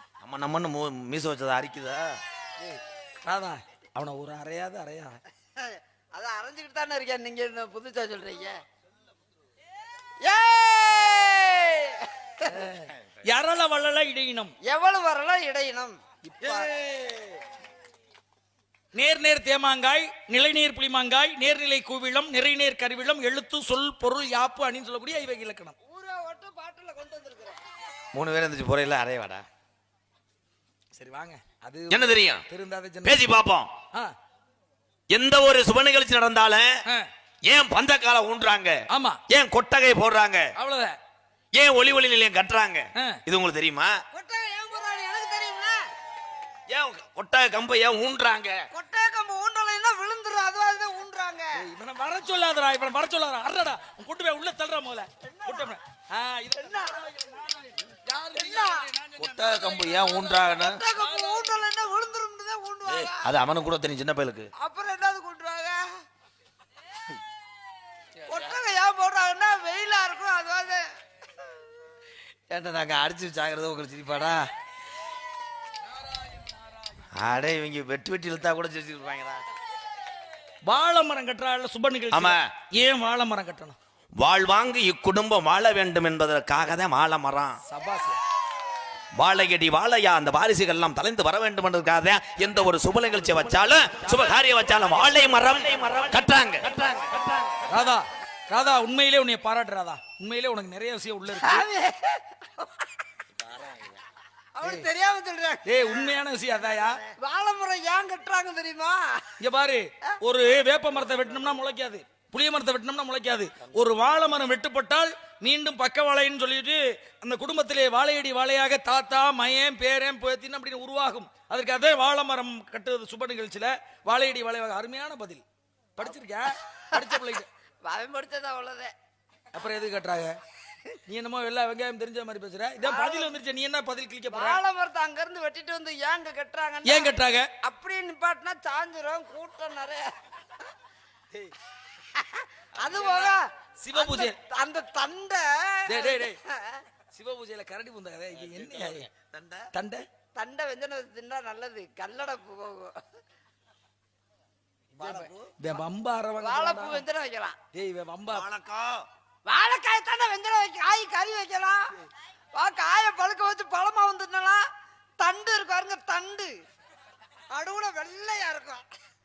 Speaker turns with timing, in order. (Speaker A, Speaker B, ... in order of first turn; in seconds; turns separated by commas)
Speaker A: 0.2-2.2, Speaker B: 2.6-5.2, Speaker C: 5.6-8.6, Speaker C: 10.2-12.7, Speaker B: 12.5-14.6, Speaker C: 14.6-16.7, Speaker B: 16.3-16.7, Speaker B: 18.9-25.8, Speaker C: 25.9-27.6, Speaker A: 28.1-29.4, Speaker B: 30.9-33.2, Speaker A: 31.9-32.4, Speaker A: 33.0-33.7, Speaker A: 35.1-36.8, Speaker A: 37.5-40.5, Speaker B: 38.9-39.2, Speaker B: 40.6-41.0, Speaker A: 41.5-43.9, Speaker B: 43.0-43.2, Speaker C: 44.1-45.8, Speaker A: 46.7-48.7, Speaker C: 48.7-51.6, Speaker B: 51.5-60.3, Speaker C: 55.2-55.8, Speaker C: 56.5-57.0, Speaker C: 58.4-58.9, Speaker A: 59.2-60.8, Speaker C: 60.2-63.3, Speaker B: 60.9-61.7, Speaker A: 63.2-64.5, Speaker C: 64.6-65.8, Speaker C: 68.3-70.8, Speaker A: 72.5-74.4, Speaker A: 77.2-79.4, Speaker B: 80.7-83.8, Speaker A: 82.1-82.5, Speaker A: 84.2-87.6, Speaker B: 87.7-88.2, Speaker A: 89.2-97.6, Speaker B: 97.6-101.7, Speaker C: 101.3-102.9, Speaker C: 104.6-106.2, Speaker B: 105.7-107.0, Speaker C: 107.1-109.3, Speaker B: 109.4-125.4, Speaker B: 126.0-127.5, Speaker C: 126.7-127.0, Speaker C: 127.9-128.9, Speaker B: 129.5-130.4, Speaker B: 131.1-134.6, Speaker C: 132.8-133.3, Speaker C: 134.3-140.1, Speaker B: 136.8-137.5, Speaker C: 142.2-146.8, Speaker B: 142.9-144.3, Speaker B: 145.9-146.4, Speaker B: 147.1-149.1, Speaker A: 148.4-149.7, Speaker B: 149.7-150.0, Speaker C: 150.3-152.9, Speaker A: 155.0-155.5, Speaker C: 155.0-155.3, Speaker B: 155.6-157.0, Speaker C: 156.4-157.6, Speaker B: 157.7-158.5, Speaker A: 158.3-159.1, Speaker C: 159.5-161.9, Speaker C: 162.6-164.6, Speaker C: 165.2-166.5, Speaker C: 167.5-168.8